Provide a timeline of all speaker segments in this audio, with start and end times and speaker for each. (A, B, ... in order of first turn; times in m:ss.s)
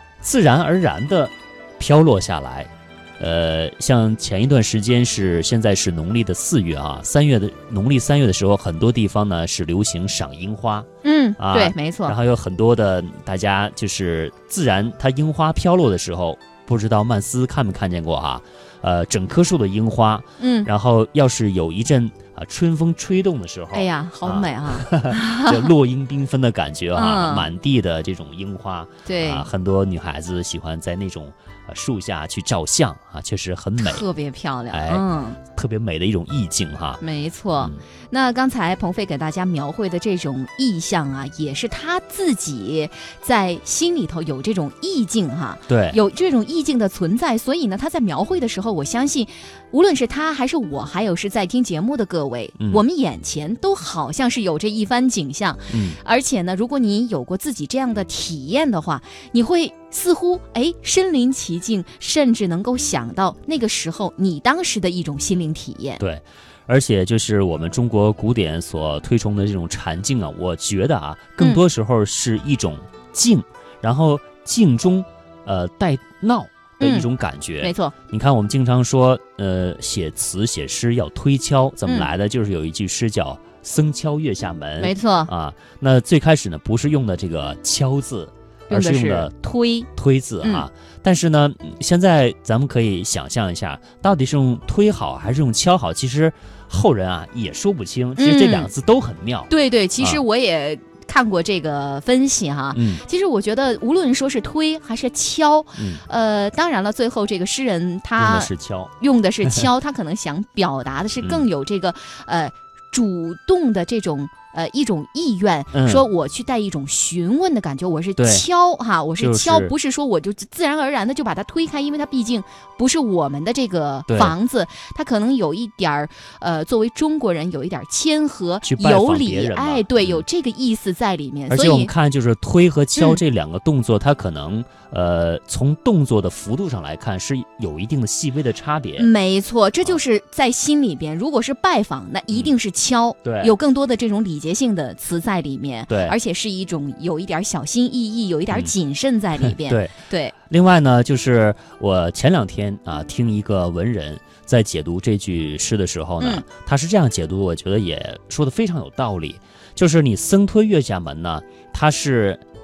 0:00.2-0:10.9 A
0:11.0-0:12.2 B
0:11.4-0:34.0 A
0:20.4-0:20.7 B
0:23.7-0:25.7 B
0:26.9-0:27.5 B
0:29.0-0:29.5 B
0:33.8-0:35.4 B
0:34.7-0:37.0 A
0:37.0-1:06.0 B
0:37.6-0:37.8 A
0:45.7-0:46.0 A
0:55.7-0:56.0 A
1:06.0-1:40.2 A
1:11.4-1:11.6 B
1:16.8-1:17.1 B
1:17.6-1:17.9 B
1:24.8-1:25.3 B
1:28.7-1:29.8 B
1:30.4-1:30.7 B
1:38.2-1:38.7 B
1:39.5-2:11.9 B
1:42.7-1:43.0 A
1:45.8-1:46.0 A
1:48.2-1:48.9 A
1:51.2-1:51.4 A
1:55.7-1:56.0 A
1:58.2-1:58.4 A
1:59.2-1:59.7 A
2:04.1-2:04.3 A
2:08.6-2:10.2 A
2:11.5-2:19.1 A
2:19.0-2:30.3 B
2:23.2-2:23.5 A
2:25.9-2:26.2 A
2:29.4-2:29.9 A
2:30.5-2:42.4 A